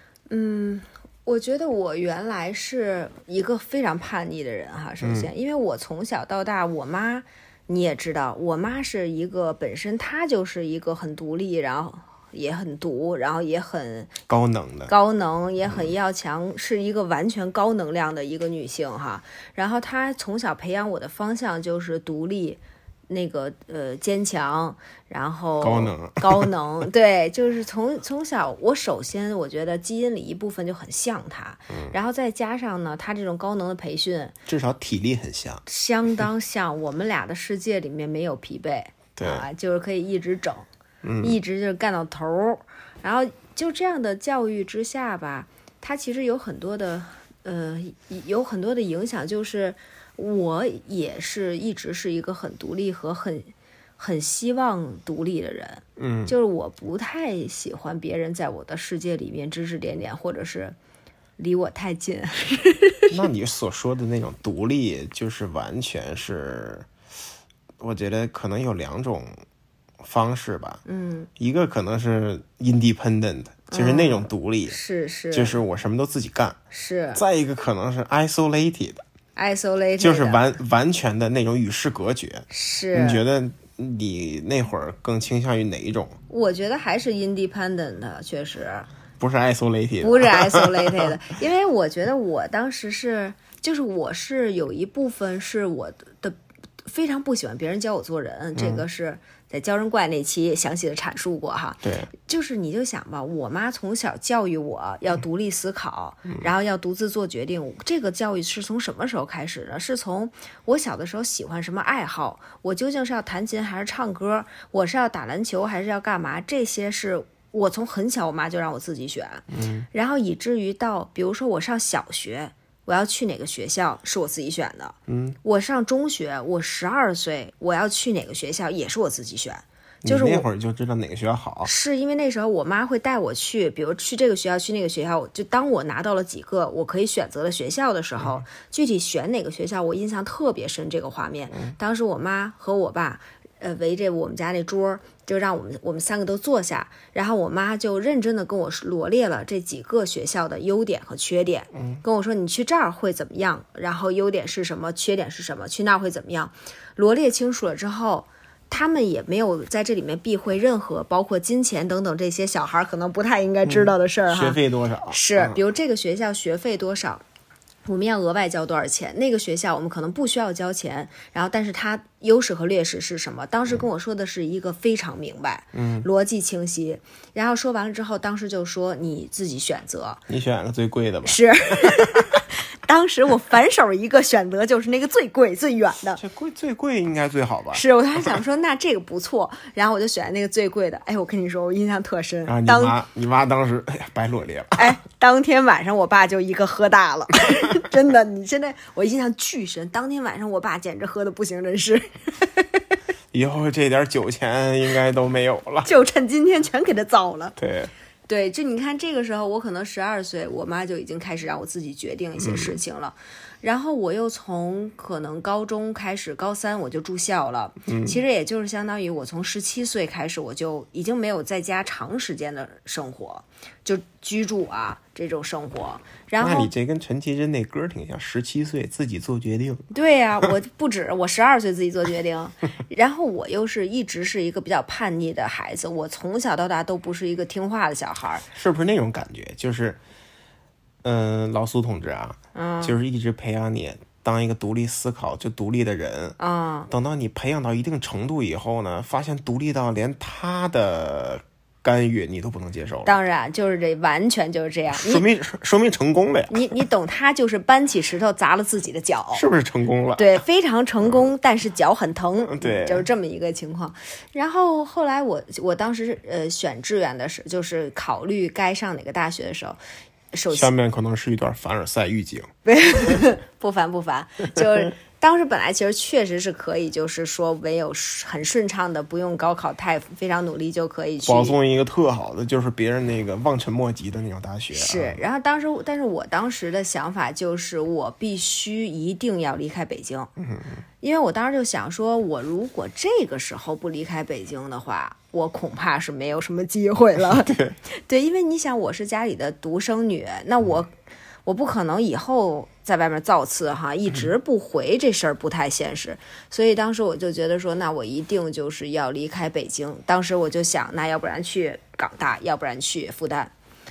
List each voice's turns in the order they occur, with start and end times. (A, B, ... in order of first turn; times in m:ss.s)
0:00.3-0:14.1 A
0:05.0-0:05.3 B
0:14.3-0:14.9 B
0:14.9-0:34.3 A
0:25.6-0:26.5 B
0:34.5-0:35.6 B
0:35.7-0:40.7 A
0:39.2-0:39.5 B
0:41.0-0:41.4 B
0:41.2-1:00.8 A
0:56.0-0:56.3 B
1:01.4-1:03.1 A
1:03.1-1:06.9 B
1:07.8-1:09.4 B
1:10.0-1:10.8 B
1:10.9-1:11.3 A
1:11.4-1:14.8 B
1:13.7-1:15.6 A
1:15.3-1:16.6 B
1:16.7-1:17.2 A
1:17.2-1:19.0 B
1:19.4-1:20.4 A
1:20.0-1:26.2 B
1:22.5-1:23.2 A
1:26.3-1:28.9 A
1:29.2-1:31.1 B
1:30.0-2:10.5 A
1:38.6-1:38.8 B
1:41.8-1:42.1 B
1:59.5-1:59.9 B
2:05.1-2:05.4 B
2:10.0-2:11.7 B
2:11.6-2:47.2 A
2:31.8-2:32.0 B
2:43.6-2:45.6 B
2:47.9-3:00.2 A
2:55.7-2:56.1 B
3:00.3-3:02.3 B
3:01.2-3:06.2 A
3:06.2-3:07.8 B
3:07.7-3:13.0 A
3:12.5-3:14.9 B
3:14.8-3:22.6 A
3:23.3-3:25.9 B
3:25.8-3:27.6 A
3:27.6-3:27.9 B
3:28.3-3:46.7 A
3:32.4-3:32.8 B
3:37.9-3:38.2 B
3:46.4-3:49.8 B
3:49.9-3:58.4 A
3:58.5-4:00.0 B
4:01.0-4:06.4 B
4:02.6-4:03.0 A
4:06.4-4:06.9 A
4:06.9-4:13.1 B
4:13.0-4:15.2 A
4:14.9-4:16.6 B
4:16.5-4:19.4 A
4:19.3-4:20.4 B
4:20.2-4:29.8 A
4:22.5-4:23.1 B
4:30.3-4:30.7 A
4:30.5-4:32.5 B
4:32.7-4:41.6 A
4:41.2-4:45.2 B
4:44.7-4:50.3 A
4:50.4-4:50.8 B
4:51.0-5:00.9 A
4:57.2-4:57.8 B
5:01.4-5:13.5 A